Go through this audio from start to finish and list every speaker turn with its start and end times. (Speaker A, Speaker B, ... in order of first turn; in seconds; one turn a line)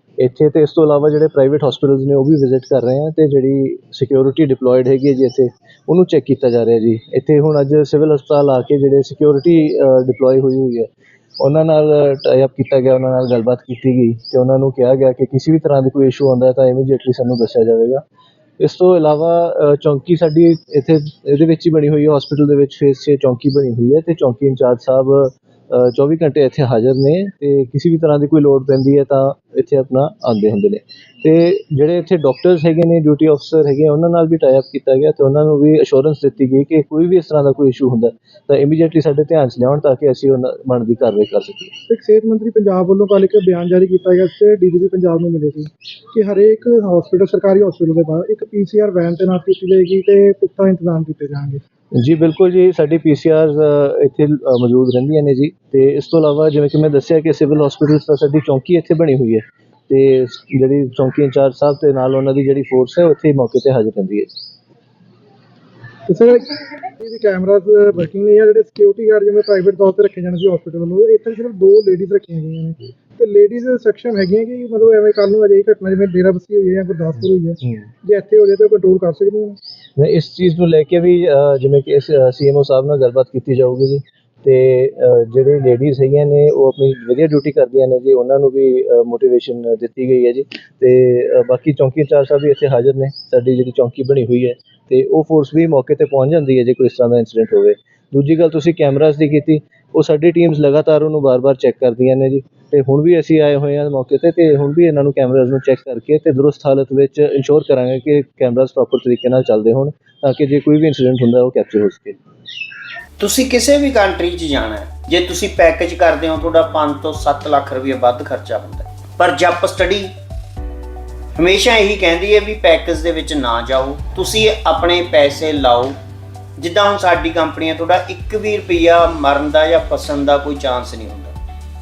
Speaker A: 0.2-18.0
Speaker A: 18.6-41.7
Speaker B: 41.9-51.6
Speaker A: 51.9-64.3
Speaker B: 66.1-79.6
Speaker A: 80.0-112.2
Speaker C: 113.2-120.1
Speaker C: 121.3-126.0
Speaker C: 126.6-131.3